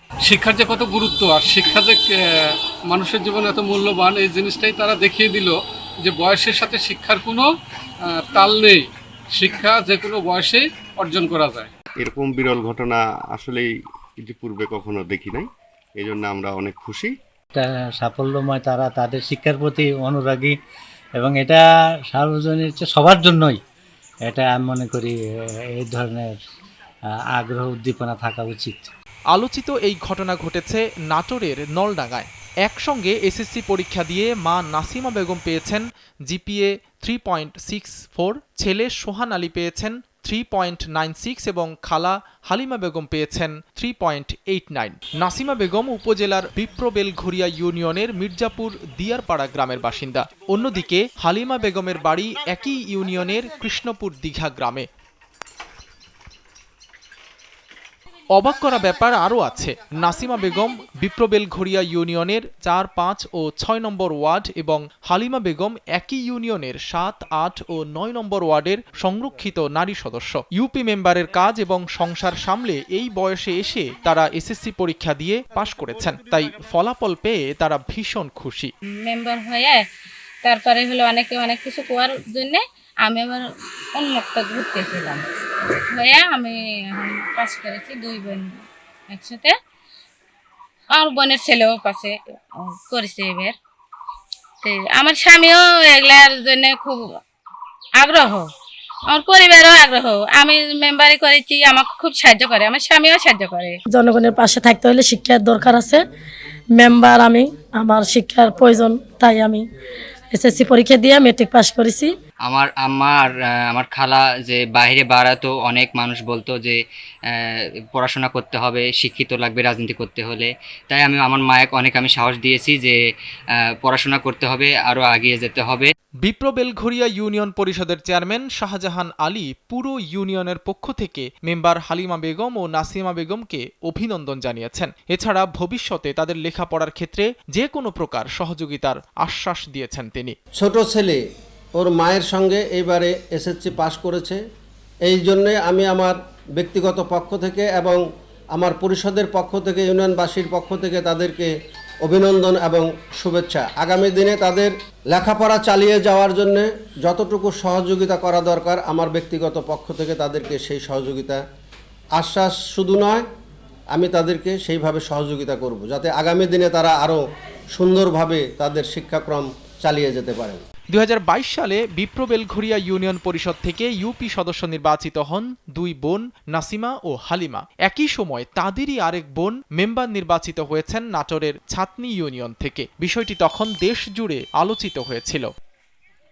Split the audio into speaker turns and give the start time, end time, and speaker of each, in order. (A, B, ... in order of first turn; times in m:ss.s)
0:00.3-0:01.0 A
0:03.0-0:05.5 A
0:06.1-0:07.2 A
0:09.4-0:09.8 A
0:12.0-0:17.1 B
0:17.5-0:20.6 C
0:21.2-0:23.6 C
0:24.2-0:25.2 C
0:25.7-0:26.4 C
0:27.3-0:28.9 C
0:29.3-0:54.9 D
0:58.3-1:18.7 D
1:19.0-1:19.8 E
1:20.4-1:23.4 E
1:23.9-1:25.2 E
1:25.9-1:29.5 E
1:30.9-1:33.5 E
1:34.6-1:37.0 E
1:38.0-1:38.5 E
1:39.1-1:43.7 E
1:43.9-1:46.0 F
1:46.7-1:49.6 F
1:50.3-1:52.1 F
1:52.4-1:56.8 G
1:57.3-2:03.0 G
2:03.8-2:05.9 G
2:06.2-2:20.4 D
2:20.6-2:21.2 H
2:21.8-2:24.4 H
2:25.0-2:28.0 H
2:28.5-2:31.5 H
2:32.0-2:41.4 H
2:42.2-2:43.2 H
2:43.9-2:50.6 H
2:50.9-3:05.5 D